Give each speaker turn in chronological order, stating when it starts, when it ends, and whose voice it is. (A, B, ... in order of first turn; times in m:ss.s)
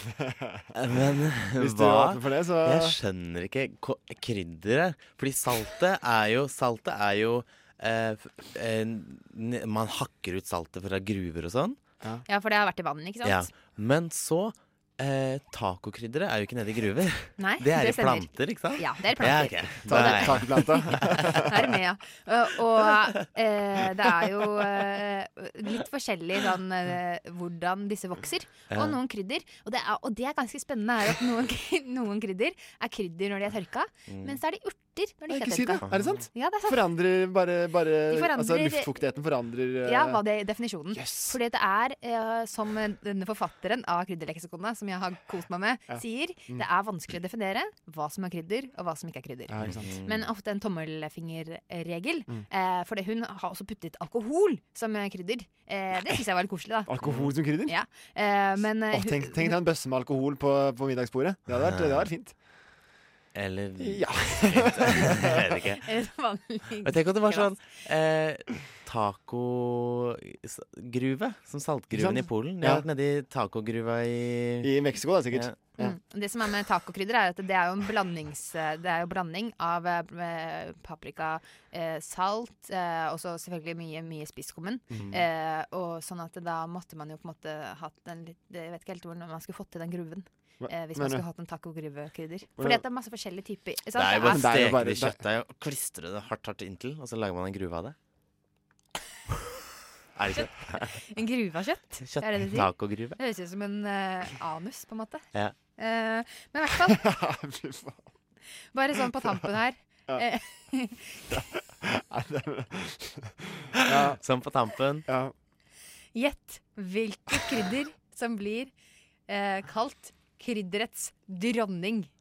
0:00.2-0:00.7 A
0:00.7-0:11.8 B
0:01.6-0:03.0 A
0:12.2-0:13.6 C
0:13.2-0:21.2 B
0:17.4-0:20.7 C
0:19.9-0:21.5 A
0:21.5-0:36.9 C
0:28.7-0:29.0 B
0:34.1-0:34.4 B
0:35.3-0:40.2 A
0:38.1-0:39.0 C
0:39.8-0:57.0 C
0:40.9-0:41.4 A
0:45.9-0:46.6 A
0:49.5-0:50.0 A
0:49.6-0:50.2 B
0:56.9-0:57.8 A
0:57.0-0:57.3 B
0:57.5-0:59.6 C
0:58.9-1:02.3 A
1:01.6-1:02.1 B
1:03.3-1:05.8 B
1:03.8-1:05.3 A
1:05.8-1:07.6 C
1:06.8-1:14.7 B
1:11.9-1:12.8 A
1:14.6-1:15.9 A
1:15.3-1:15.7 B
1:15.8-1:34.6 C
1:30.6-1:31.2 A
1:33.9-1:37.9 B
1:34.2-1:35.2 A
1:40.2-1:41.0 B
1:40.4-1:47.0 C
1:42.0-1:43.2 B
1:46.9-1:48.0 A
1:48.7-1:51.2 C
1:51.3-1:54.2 A
1:54.1-1:55.1 B
1:55.1-1:55.3 A
1:56.1-1:58.7 C
1:59.3-2:02.1 C